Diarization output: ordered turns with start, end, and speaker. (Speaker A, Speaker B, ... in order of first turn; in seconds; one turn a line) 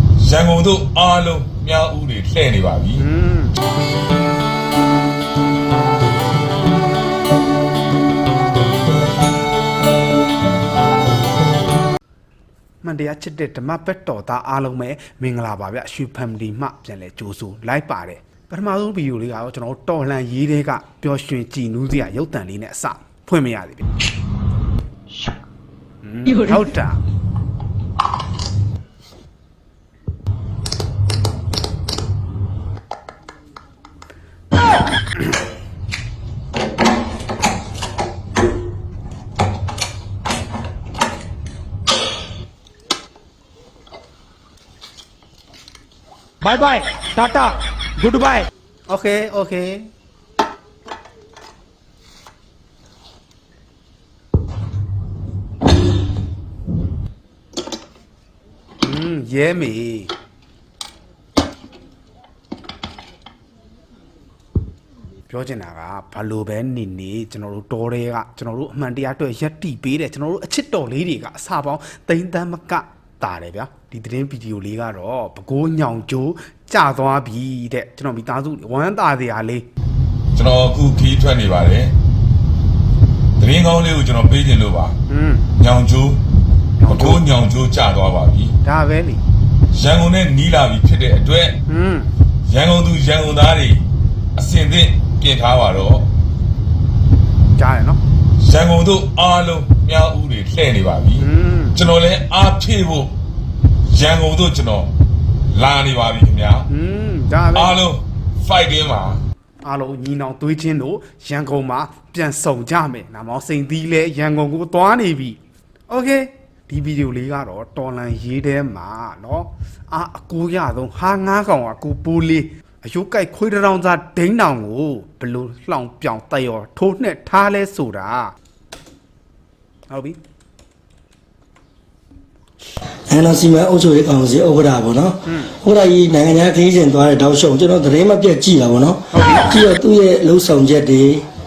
Speaker A: 0.2-3.0
Speaker B: 3.0-3.5
Speaker B: 12.8-23.8
Speaker B: 26.0-27.0
Speaker B: 46.4-49.9
Speaker B: 58.8-60.1
Speaker B: 65.3-79.6
Speaker A: 80.3-81.9
Speaker A: 83.4-85.0
Speaker B: 85.1-85.5
Speaker A: 85.6-86.2
Speaker B: 86.8-87.2
Speaker A: 86.9-88.5
Speaker B: 88.6-89.2
Speaker A: 89.7-91.6
Speaker B: 91.7-92.1
Speaker A: 92.5-93.8
Speaker A: 94.3-96.1
Speaker B: 97.5-98.0
Speaker A: 98.4-103.1
Speaker B: 101.2-101.8
Speaker A: 103.9-104.9
Speaker A: 105.5-106.7
Speaker B: 106.7-107.8
Speaker A: 107.6-109.2
Speaker B: 109.6-128.3
Speaker B: 129.9-130.2
Speaker C: 133.1-141.2
Speaker B: 139.1-139.5